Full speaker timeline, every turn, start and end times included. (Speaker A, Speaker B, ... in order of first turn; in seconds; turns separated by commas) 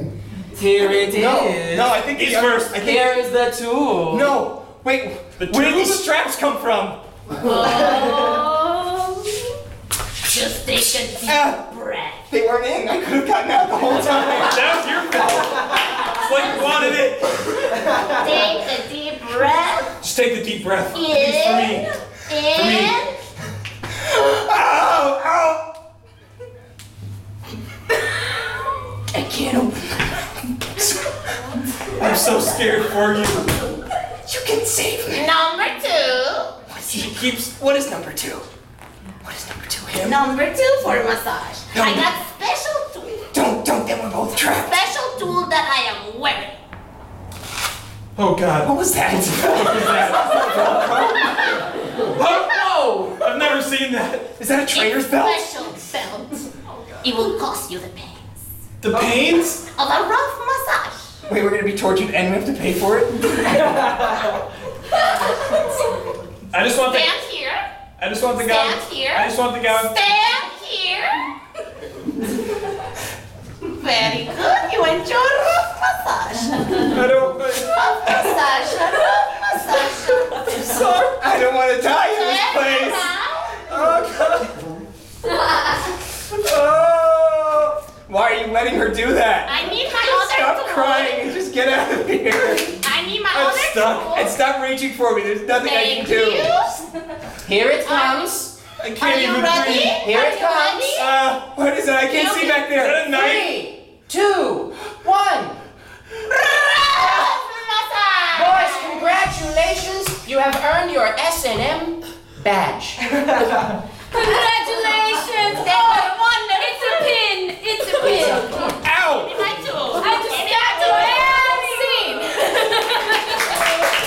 Speaker A: 0.5-2.0, Speaker B: 1.0-3.2, Speaker C: 2.1-2.6, Speaker A: 2.7-4.4, Speaker B: 4.1-7.0, Speaker C: 5.4-6.0, Speaker D: 7.4-9.4, Speaker D: 10.2-12.2, Speaker B: 11.2-11.7, Speaker B: 12.3-16.0, Speaker C: 14.4-17.5, Speaker D: 16.1-16.9, Speaker D: 17.9-19.9, Speaker C: 20.0-21.9, Speaker D: 20.9-23.1, Speaker C: 22.5-23.0, Speaker B: 24.5-25.6, Speaker B: 29.1-29.9, Speaker B: 30.8-31.1, Speaker C: 32.0-33.5, Speaker B: 34.2-35.3, Speaker D: 35.1-36.5, Speaker B: 36.7-38.4, Speaker C: 36.9-37.3, Speaker B: 39.2-40.2, Speaker D: 39.9-43.4, Speaker B: 41.7-42.1, Speaker B: 43.3-44.8, Speaker D: 44.5-46.6, Speaker C: 48.1-48.7, Speaker B: 48.6-51.6, Speaker C: 49.7-50.0, Speaker D: 50.3-51.1, Speaker C: 52.2-52.6, Speaker A: 52.7-53.0, Speaker C: 53.2-54.4, Speaker B: 54.4-55.5, Speaker D: 54.7-56.5, Speaker D: 57.0-58.4, Speaker C: 58.8-59.6, Speaker D: 59.7-61.1, Speaker B: 61.3-63.7, Speaker D: 64.9-65.8, Speaker C: 66.5-67.1, Speaker D: 66.8-67.7, Speaker C: 68.0-69.9, Speaker D: 68.3-71.3, Speaker D: 73.8-76.9, Speaker C: 76.9-77.8, Speaker D: 77.7-80.7, Speaker B: 80.4-83.1, Speaker D: 82.0-83.7, Speaker B: 83.7-84.5, Speaker B: 86.4-92.8, Speaker D: 89.5-91.3, Speaker D: 92.8-94.3, Speaker B: 93.3-96.6, Speaker D: 95.5-96.8, Speaker A: 97.4-98.5, Speaker D: 97.8-98.3, Speaker C: 98.8-99.9, Speaker D: 99.0-101.1, Speaker A: 99.9-101.0, Speaker B: 100.9-103.1, Speaker D: 102.1-102.7, Speaker C: 102.7-103.5, Speaker A: 103.0-105.6, Speaker D: 106.4-109.2, Speaker A: 108.3-113.0, Speaker E: 114.1-118.7, Speaker D: 115.5-117.2, Speaker D: 117.9-122.1, Speaker E: 119.9-123.5